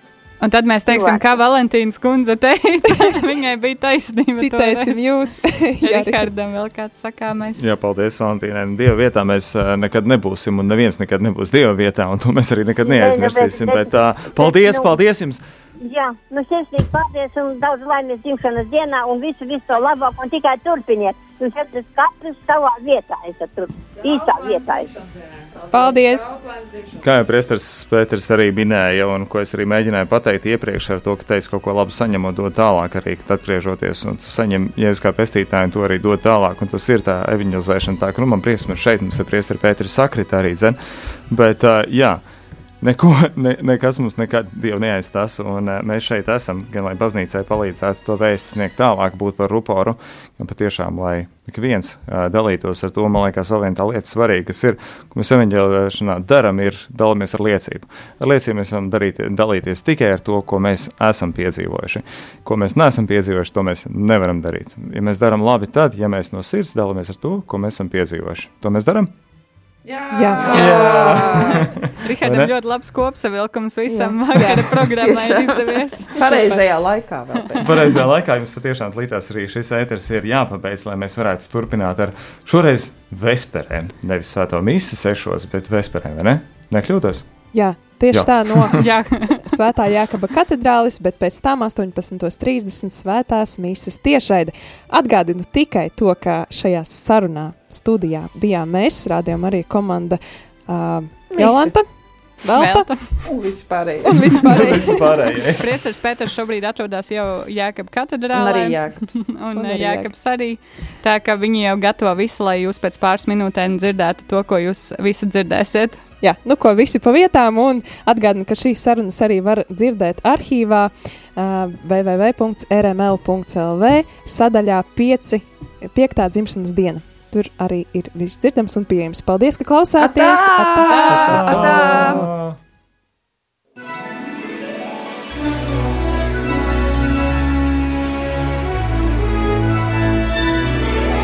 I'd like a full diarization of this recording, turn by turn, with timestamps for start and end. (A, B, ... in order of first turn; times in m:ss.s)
0:00.4-0:05.1 A
0:00.9-0:01.3 B
0:04.4-0:06.2 C
0:05.8-0:07.6 A
0:07.6-0:15.4 D
0:12.8-0:14.9 B
0:15.8-0:24.9 B
0:24.2-0:24.5 E
0:25.7-0:26.4 C
0:27.0-0:40.8 D
0:41.3-0:42.2 D
0:42.8-1:09.1 D
1:09.8-1:11.7 E
1:10.1-1:10.5 C
1:10.4-1:12.5 D
1:11.5-1:16.6 A
1:13.9-1:18.0 E
1:17.6-1:27.3 D
1:27.5-1:28.8 C
1:28.1-1:28.9 D
1:28.7-1:29.5 A
1:29.4-1:41.9 C
1:41.3-1:41.8 E
1:42.4-1:42.9 C
1:42.5-1:43.1 A
1:43.2-1:44.8 E
1:44.0-1:45.1 C
1:44.4-1:45.7 D
1:45.6-1:56.0 A
1:48.3-1:49.2 E
1:49.5-1:50.3 C
1:56.2-2:12.0 C
2:10.0-2:12.3 E
2:11.1-2:12.5 D